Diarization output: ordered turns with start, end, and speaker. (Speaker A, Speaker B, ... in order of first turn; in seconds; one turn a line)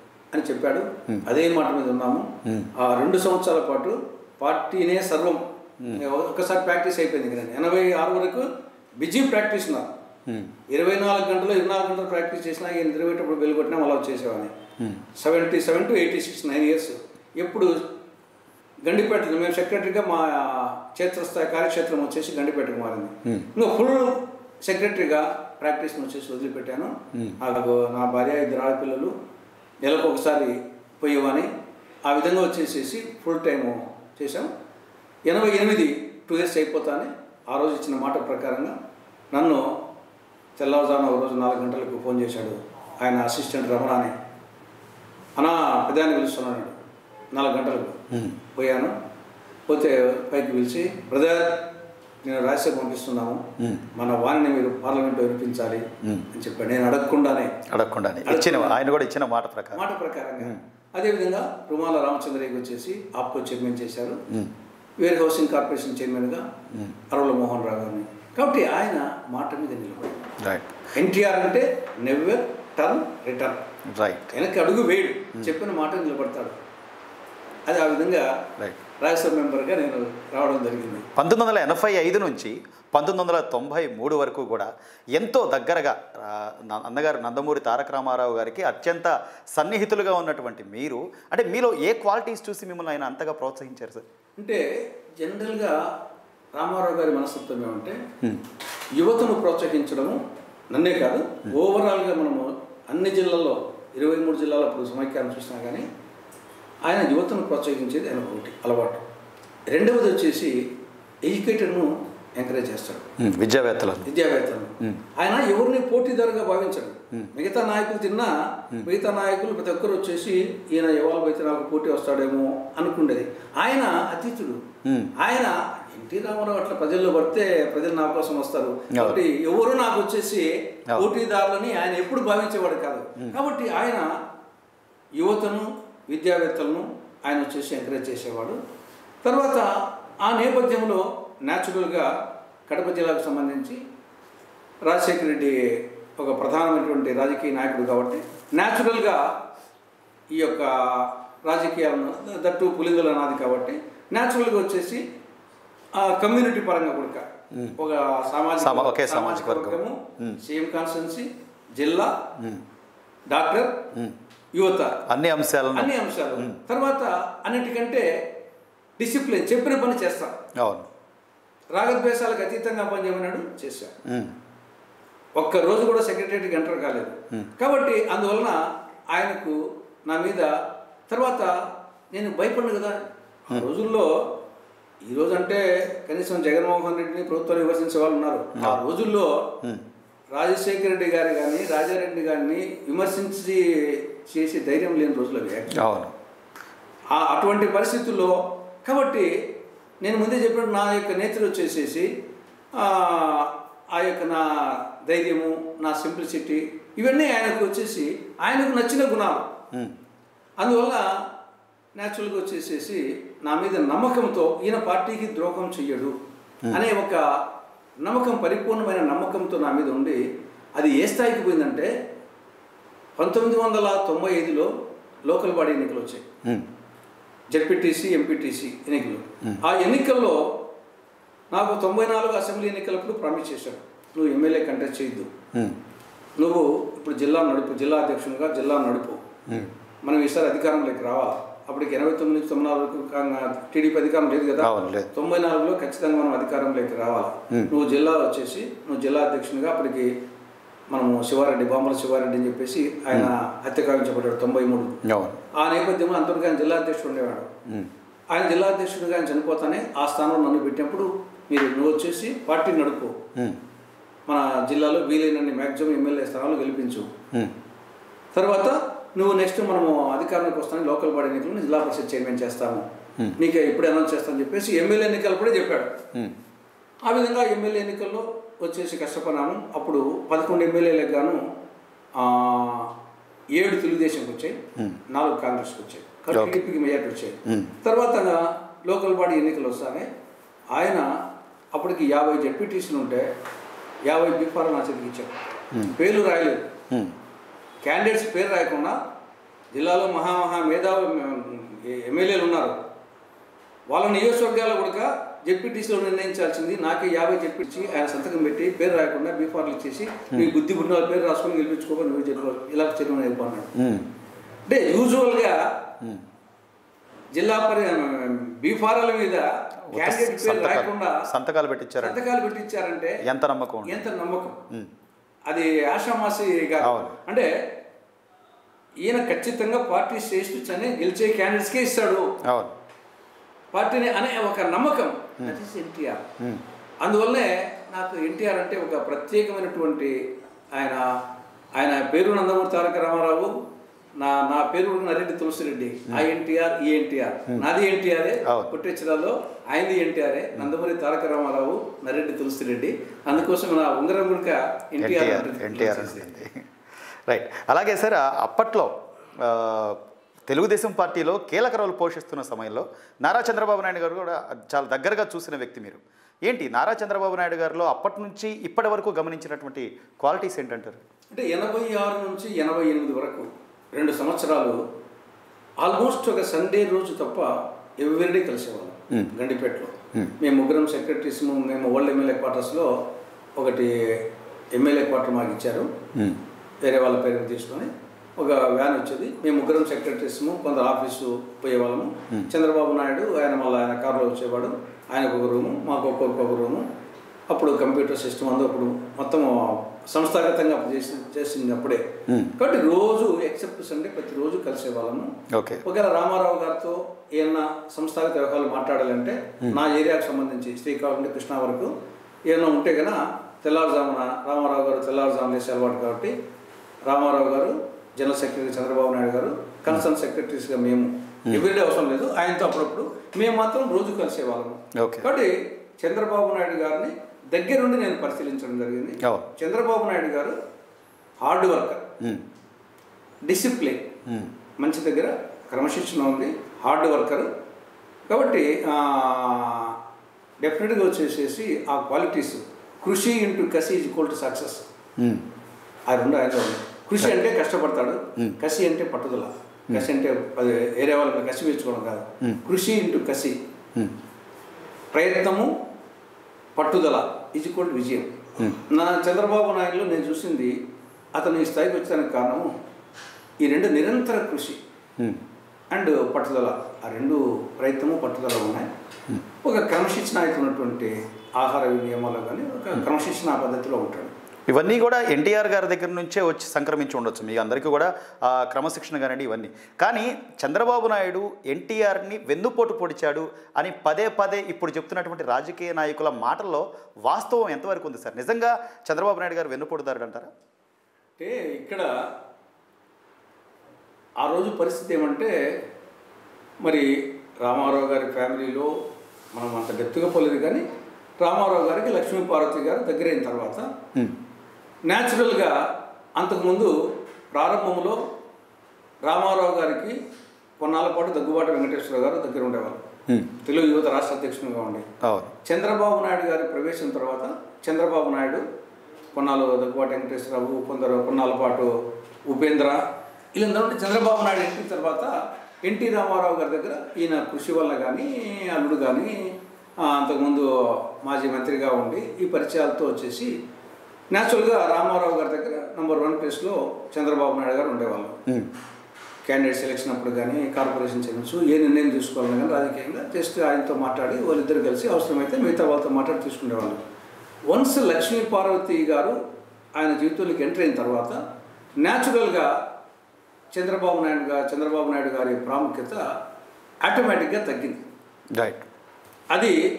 Speaker A: 0.3-8.5
Speaker B: 2.4-2.7
Speaker A: 9.0-9.9
Speaker B: 10.3-10.5
Speaker A: 10.7-14.5
Speaker A: 15.2-17.9
Speaker A: 18.8-29.1
Speaker A: 29.8-31.5
Speaker A: 32.0-34.5
Speaker A: 35.2-38.7
Speaker A: 39.3-39.8
Speaker A: 40.6-44.1
Speaker A: 45.4-46.8
Speaker A: 47.3-48.0
Speaker B: 48.1-48.4
Speaker A: 48.5-48.9
Speaker A: 49.7-57.6
Speaker B: 53.6-53.8
Speaker B: 57.7-59.8
Speaker A: 58.2-58.8
Speaker A: 59.7-64.2
Speaker A: 65.0-66.5
Speaker A: 67.1-70.2
Speaker B: 70.4-70.7
Speaker A: 70.9-73.6
Speaker B: 73.9-74.3
Speaker A: 74.3-76.6
Speaker A: 77.7-78.3
Speaker A: 79.0-81.1
Speaker B: 81.2-94.0
Speaker A: 94.4-94.6
Speaker A: 95.2-95.8
Speaker A: 96.5-98.0
Speaker A: 99.0-100.2
Speaker A: 100.7-105.8
Speaker A: 106.8-109.0
Speaker A: 109.7-110.6
Speaker A: 111.2-113.1
Speaker B: 113.2-114.1
Speaker A: 114.0-124.6
Speaker B: 124.8-125.1
Speaker A: 125.2-134.1
Speaker B: 128.9-129.2
Speaker A: 135.2-138.6
Speaker A: 139.2-142.1
Speaker A: 142.7-143.8
Speaker A: 144.8-149.4
Speaker A: 150.3-155.0
Speaker A: 155.9-162.2
Speaker B: 158.6-160.4
Speaker B: 162.4-162.6
Speaker A: 163.3-163.8
Speaker A: 164.5-165.0
Speaker B: 165.1-166.6
Speaker A: 165.7-168.2
Speaker A: 169.0-170.3
Speaker B: 170.6-170.9
Speaker A: 171.7-173.9
Speaker B: 174.0-174.3
Speaker A: 175.4-178.6
Speaker A: 179.1-180.5
Speaker A: 181.1-181.5
Speaker A: 182.1-184.2
Speaker A: 185.1-189.5
Speaker B: 188.6-188.8
Speaker A: 190.3-195.8
Speaker B: 195.8-196.1
Speaker A: 197.1-199.3
Speaker A: 200.0-202.1
Speaker A: 202.7-209.5
Speaker A: 210.6-211.2
Speaker A: 211.9-216.1
Speaker A: 216.7-217.4
Speaker A: 218.0-220.2
Speaker A: 220.8-221.9
Speaker A: 223.2-224.7
Speaker A: 225.3-226.2
Speaker A: 227.5-230.6
Speaker A: 231.5-235.3
Speaker B: 235.5-235.8
Speaker A: 236.4-239.2
Speaker A: 240.0-250.1
Speaker B: 244.6-245.1
Speaker A: 250.9-255.0
Speaker B: 255.0-255.4
Speaker A: 255.5-257.5
Speaker A: 258.3-263.2
Speaker A: 264.3-267.1
Speaker A: 268.3-272.8
Speaker A: 273.4-276.0
Speaker A: 277.0-281.4
Speaker A: 282.1-282.9
Speaker A: 283.5-290.1
Speaker B: 286.3-286.6
Speaker B: 287.4-287.7
Speaker A: 290.7-291.1
Speaker A: 291.7-293.3
Speaker A: 294.1-295.4
Speaker A: 295.9-296.6
Speaker A: 297.8-298.9
Speaker A: 299.7-302.8
Speaker A: 303.9-313.7
Speaker B: 313.8-314.1
Speaker A: 314.7-315.7
Speaker A: 317.3-321.2
Speaker B: 319.9-322.2
Speaker A: 322.0-323.2
Speaker B: 323.2-324.0
Speaker A: 323.8-324.6
Speaker A: 325.5-327.5
Speaker B: 326.8-327.1
Speaker A: 329.0-332.3
Speaker B: 332.4-332.7
Speaker A: 333.7-336.2
Speaker A: 337.0-340.2
Speaker A: 340.7-341.2
Speaker A: 341.8-343.5
Speaker A: 344.2-356.3
Speaker B: 348.4-348.7
Speaker B: 355.0-356.7
Speaker B: 357.3-371.0
Speaker A: 371.3-374.8
Speaker A: 375.8-382.9
Speaker A: 383.6-385.9
Speaker B: 386.1-386.4
Speaker A: 386.8-396.9
Speaker A: 397.5-405.3
Speaker B: 402.3-402.5
Speaker B: 405.5-405.8
Speaker A: 405.8-411.9
Speaker A: 412.5-416.3
Speaker A: 417.1-430.6
Speaker B: 424.9-425.3
Speaker A: 431.4-432.1
Speaker A: 433.4-434.1
Speaker B: 434.2-434.5
Speaker A: 434.8-437.5
Speaker A: 438.3-440.0
Speaker A: 440.6-444.9
Speaker B: 445.2-445.4
Speaker A: 446.1-453.6
Speaker A: 455.1-455.7
Speaker A: 456.8-460.7
Speaker A: 461.3-462.7
Speaker A: 463.6-464.8
Speaker A: 465.9-468.9
Speaker A: 469.6-474.3
Speaker B: 474.7-490.5
Speaker A: 491.4-492.1
Speaker A: 494.4-495.5
Speaker A: 496.8-497.1
Speaker A: 497.6-498.9
Speaker A: 499.5-500.8
Speaker A: 501.4-503.9
Speaker A: 505.1-505.8
Speaker A: 506.4-506.9
Speaker A: 507.5-508.2
Speaker A: 509.2-510.2
Speaker A: 510.8-513.0
Speaker A: 513.6-515.1
Speaker B: 515.2-515.5
Speaker A: 515.6-518.6
Speaker A: 519.3-521.9
Speaker A: 522.5-533.5
Speaker A: 534.3-538.4
Speaker A: 539.5-547.0
Speaker A: 547.7-549.4
Speaker A: 550.0-551.4
Speaker A: 552.0-552.8
Speaker A: 553.7-556.2
Speaker A: 557.0-558.0
Speaker B: 558.5-558.8
Speaker A: 559.5-559.8